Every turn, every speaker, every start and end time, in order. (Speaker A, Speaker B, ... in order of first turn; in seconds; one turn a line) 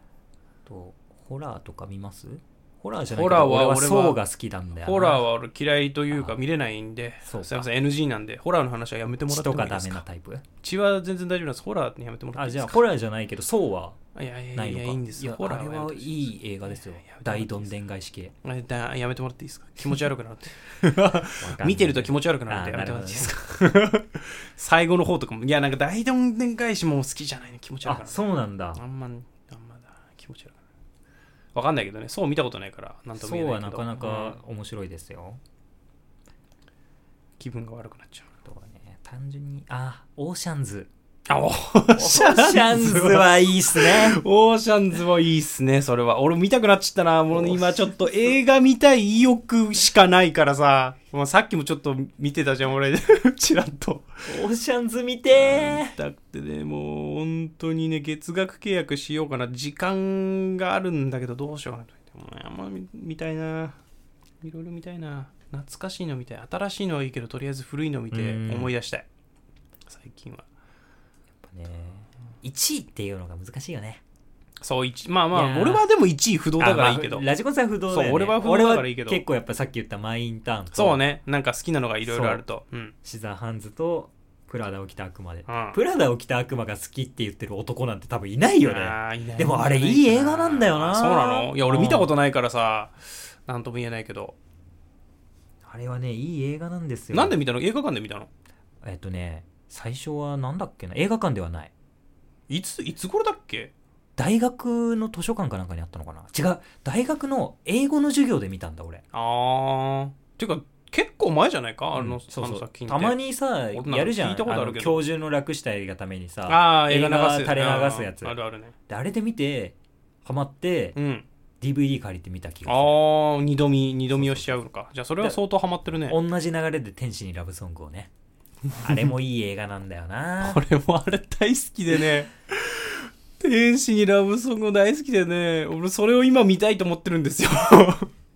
Speaker A: 0.7-5.2
Speaker B: 3.1-4.2
Speaker B: 4.8-10.0
Speaker A: 6.1-6.4
Speaker A: 7.2-7.7
Speaker A: 9.3-10.4
Speaker B: 10.6-12.8
Speaker A: 12.4-14.0
Speaker B: 14.2-17.7
Speaker A: 14.6-18.3
Speaker B: 18.4-28.2
Speaker A: 21.4-23.3
Speaker A: 27.8-28.8
Speaker B: 28.8-30.6
Speaker B: 31.5-34.4
Speaker A: 33.2-35.4
Speaker B: 37.4-38.3
Speaker A: 38.4-40.9
Speaker B: 41.3-54.3
Speaker A: 41.9-44.2
Speaker A: 54.3-56.0
Speaker B: 55.3-63.8
Speaker B: 64.4-69.1
Speaker A: 68.1-68.7
Speaker B: 69.9-70.5
Speaker A: 71.4-74.0
Speaker B: 74.6-77.3
Speaker A: 75.3-75.8
Speaker A: 76.6-81.0
Speaker B: 77.9-79.2
Speaker B: 80.7-82.9
Speaker A: 82.0-82.4
Speaker A: 83.0-92.1
Speaker B: 85.5-85.8
Speaker B: 88.6-94.3
Speaker A: 95.7-97.3
Speaker B: 97.1-98.3
Speaker A: 98.8-101.7
Speaker B: 102.5-103.7
Speaker A: 104.2-109.0
Speaker B: 109.1-113.2
Speaker A: 112.0-118.3
Speaker B: 113.7-115.0
Speaker B: 116.5-118.8
Speaker A: 118.9-121.0
Speaker B: 121.0-121.2
Speaker A: 121.6-123.0
Speaker B: 122.7-126.2
Speaker A: 124.1-124.6
Speaker A: 126.0-128.1
Speaker A: 128.8-130.6
Speaker B: 130.4-138.1